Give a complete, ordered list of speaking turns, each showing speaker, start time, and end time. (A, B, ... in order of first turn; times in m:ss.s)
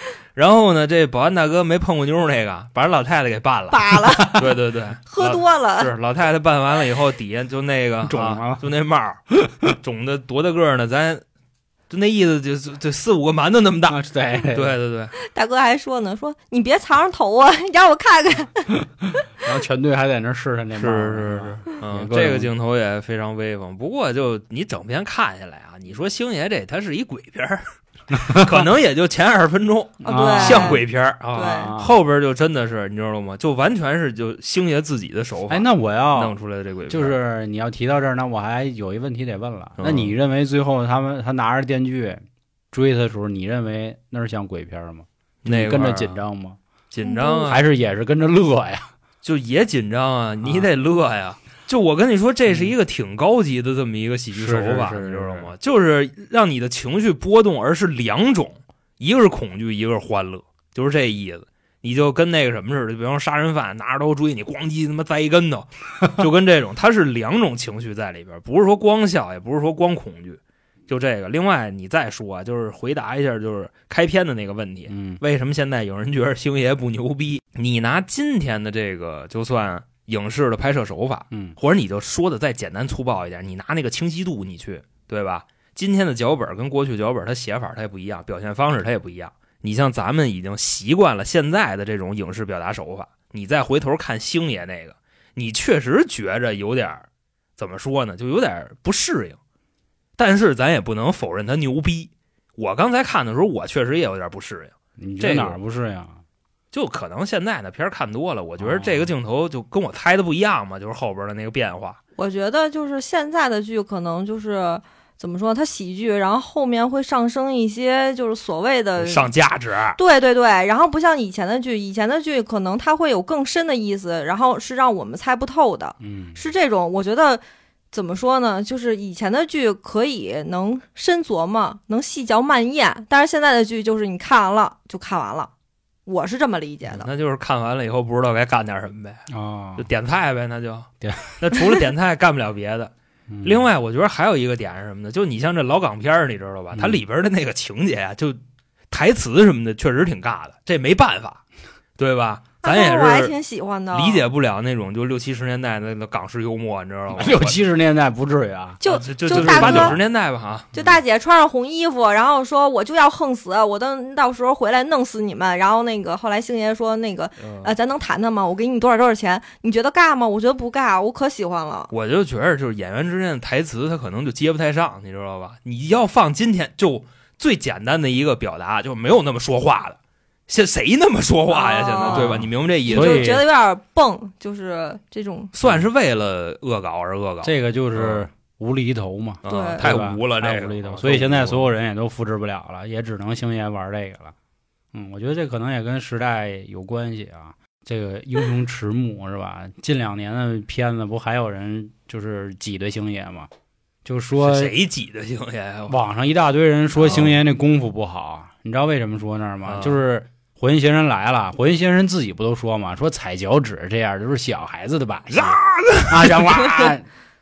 0:00.4-0:11.2 A
0:03.7-0:04.5 B
0:04.2-0:04.6 C
0:05.1-0:05.9 B
0:08.0-0:08.6 C
0:09.3-0:09.8 C
0:11.9-0:15.1 A
0:13.9-0:14.8 C
0:15.2-0:18.8 B
0:19.4-0:22.5 C
0:20.8-0:27.6 A
0:28.1-0:28.6 C
0:28.2-0:37.2 A
0:30.0-0:30.8 C
0:30.1-0:31.8 B
0:31.4-0:32.0 C
0:35.5-0:36.4 C
0:36.9-0:46.6 C
0:39.8-0:40.1 A
0:45.4-0:46.2 A
0:46.9-0:47.6 A
0:47.0-0:47.6 B
0:47.4-0:48.9 C
0:49.2-1:37.1 A
0:50.4-0:50.7 C
0:52.5-0:52.7 C
0:54.3-0:55.5 C
1:14.9-1:15.2 C
1:37.6-1:39.4 A
1:40.2-1:45.6 A
1:45.0-1:46.2 C
1:46.7-1:52.0 A
1:48.6-1:49.1 C
1:52.2-1:59.3 B
1:59.0-2:00.0 A
2:00.0-2:15.5 B
2:06.0-2:06.4 C
2:16.1-2:17.1 B
2:16.9-2:19.2 A
2:19.3-2:19.9 C
2:19.8-2:22.9 A
2:21.0-2:21.6 C
2:23.3-2:23.7 C
2:23.4-2:28.4 A
2:26.7-2:27.0 C
2:28.9-2:31.4 A
2:32.0-2:33.3 A
2:32.6-2:34.3 B
2:33.9-2:37.6 A
2:37.1-2:40.0 C
2:38.8-2:40.0 B
2:38.8-2:40.8 A
2:40.8-2:51.9 B
2:47.4-2:47.7 A
2:51.9-3:03.4 A
3:01.5-3:05.5 B
3:02.0-3:03.4 C
3:05.5-3:08.2 A
3:07.4-3:14.4 C
3:09.4-3:11.7 A
3:09.5-3:10.0 B
3:14.9-3:23.5 C
3:24.0-3:24.7 C
3:24.4-3:26.0 A
3:25.9-3:37.1 C
3:27.0-3:27.4 A
3:29.6-3:30.0 A
3:35.3-3:36.9 A